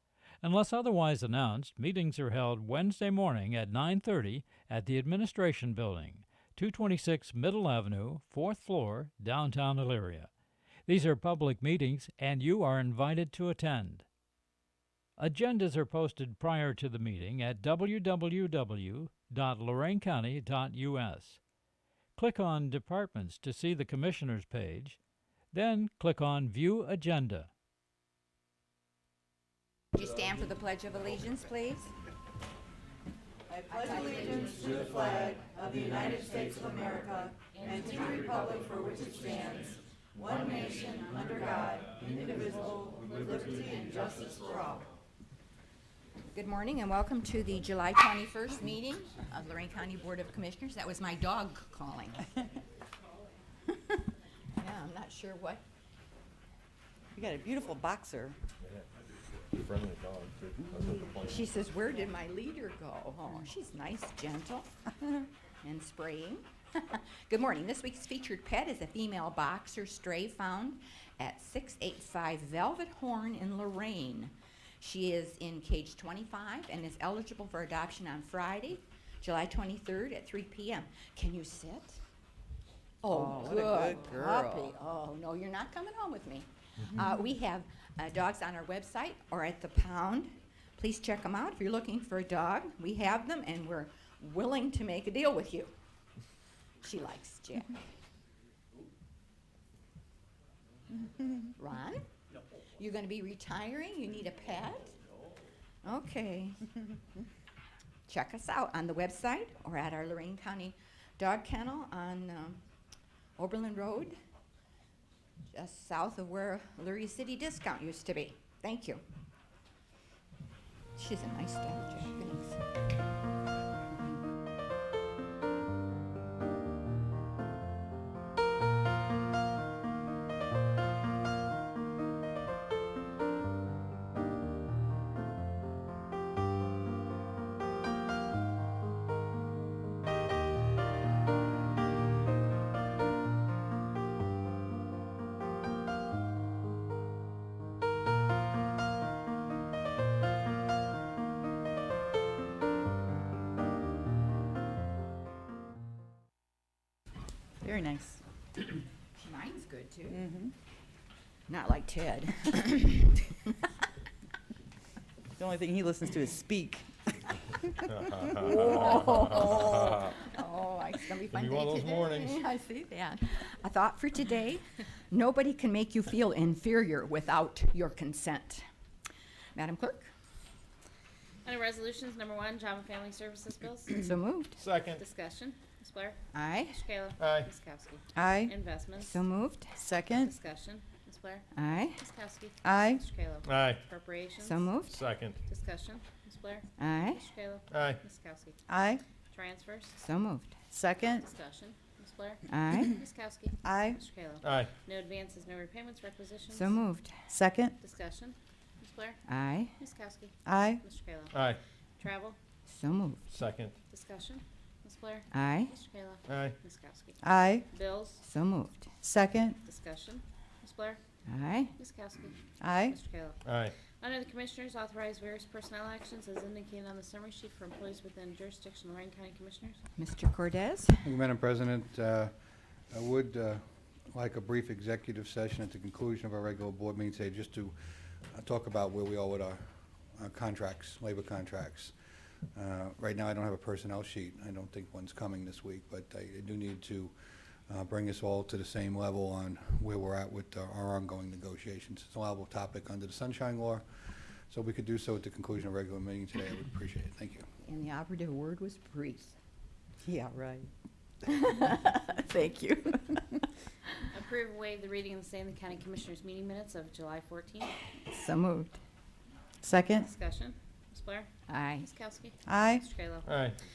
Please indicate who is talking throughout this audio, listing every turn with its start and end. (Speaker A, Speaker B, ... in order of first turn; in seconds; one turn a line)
Speaker A: 0.4-10.3
Speaker A: 10.9-14.1
Speaker A: 15.2-21.4
Speaker A: 22.2-25.0
Speaker A: 25.5-27.5
Speaker B: 29.9-31.9
Speaker C: 33.5-44.9
Speaker B: 34.1-34.7
Speaker B: 46.4-52.4
Speaker B: 53.7-54.0
Speaker B: 54.6-55.6
Speaker C: 57.1-58.4
Speaker D: 59.5-61.5
Speaker B: 61.2-64.7
Speaker B: 65.6-82.0
Speaker B: 83.0-95.7
Speaker C: 83.1-84.7
Speaker B: 96.8-97.8
Speaker B: 101.6-102.0
Speaker B: 102.8-105.0
Speaker B: 105.8-106.7
Speaker B: 108.1-112.6
Speaker B: 113.4-114.2
Speaker B: 115.5-119.0
Speaker B: 121.0-122.6
Speaker C: 157.6-158.2
Speaker B: 159.2-160.3
Speaker C: 160.1-160.5
Speaker B: 161.5-163.6
Speaker C: 165.4-167.1
Speaker D: 168.0-170.0
Speaker B: 168.3-178.6
Speaker D: 171.3-172.4
Speaker B: 179.6-180.1
Speaker E: 181.4-184.0
Speaker B: 184.0-184.6
Speaker D: 184.6-185.0
Speaker E: 185.0-186.2
Speaker B: 186.3-186.8
Speaker E: 186.7-189.2
Speaker D: 187.2-187.5
Speaker C: 188.2-188.5
Speaker B: 189.0-189.8
Speaker C: 189.8-190.3
Speaker E: 190.1-191.5
Speaker B: 191.6-192.0
Speaker E: 192.0-194.7
Speaker C: 192.6-193.0
Speaker D: 193.4-193.8
Speaker B: 194.4-195.0
Speaker D: 194.9-195.4
Speaker E: 195.5-198.6
Speaker B: 196.8-197.2
Speaker D: 197.7-198.0
Speaker C: 198.7-199.0
Speaker E: 199.3-200.0
Speaker B: 200.0-200.6
Speaker C: 200.7-201.2
Speaker E: 201.1-206.8
Speaker B: 202.5-203.0
Speaker C: 203.6-204.0
Speaker D: 204.4-204.7
Speaker B: 206.5-207.3
Speaker C: 207.3-207.7
Speaker E: 207.8-209.2
Speaker B: 209.3-209.8
Speaker E: 209.8-211.3
Speaker C: 210.4-210.8
Speaker D: 211.3-211.6
Speaker E: 212.0-212.4
Speaker B: 212.7-213.2
Speaker D: 213.3-213.7
Speaker E: 213.9-218.2
Speaker B: 215.3-215.7
Speaker D: 216.3-216.6
Speaker C: 217.2-217.7
Speaker B: 218.2-219.0
Speaker C: 219.0-219.6
Speaker E: 219.6-221.0
Speaker B: 221.3-221.8
Speaker E: 221.8-223.4
Speaker C: 222.6-222.9
Speaker D: 223.4-223.8
Speaker E: 224.0-229.8
Speaker B: 230.0-231.2
Speaker F: 231.0-232.3
Speaker F: 232.9-241.9
Speaker F: 242.5-247.1
Speaker F: 247.7-257.5
Speaker B: 257.6-259.4
Speaker C: 260.1-260.7
Speaker B: 261.3-263.3
Speaker E: 264.1-267.8
Speaker B: 268.1-268.8
Speaker C: 269.6-270.1
Speaker E: 269.9-271.3
Speaker B: 271.5-271.9
Speaker E: 271.8-273.3
Speaker C: 272.5-272.8
Speaker D: 273.2-273.6